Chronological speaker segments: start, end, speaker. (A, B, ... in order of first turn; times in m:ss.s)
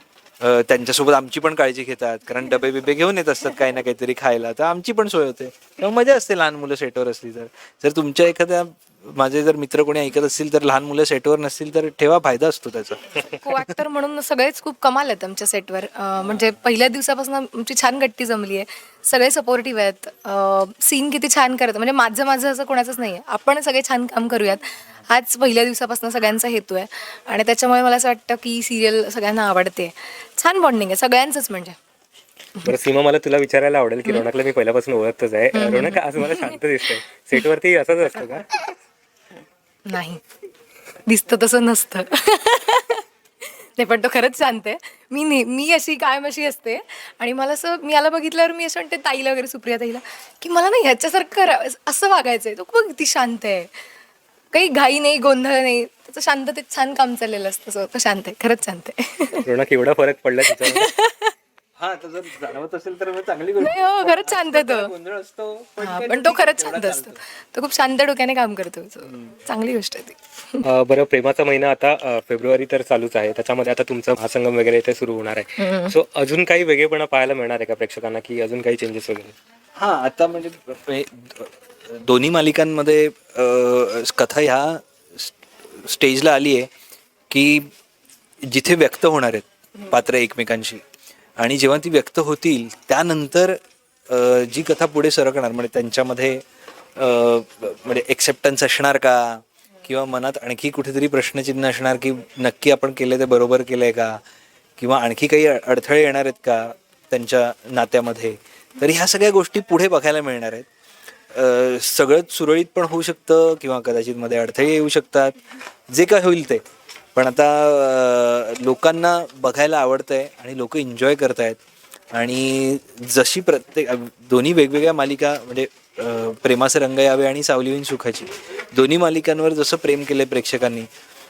0:00.4-0:13.3 A
0:13.3-0:31.8 B
0:32.6-0:38.6 C
0:35.5-0:36.5 B
0:39.9-0:40.2 B
0:41.0-0:53.7 B
0:54.5-0:59.5 B
0:59.4-1:00.9 C
1:00.5-1:01.3 B
1:01.8-1:07.2 A
1:03.6-1:04.9 B
1:05.8-1:10.6 B
1:09.1-1:09.4 A
1:10.6-1:19.3 C
1:15.6-1:15.9 B
1:19.8-1:26.7 A
1:27.3-1:27.7 A
1:28.4-1:30.8 A
1:31.4-1:33.6 A
1:34.1-1:36.4 A
1:37.0-1:44.2 A
1:44.8-1:50.7 A
1:51.3-1:55.4 A
1:55.9-1:56.6 A
1:57.1-2:01.6 A
2:02.1-2:10.9 A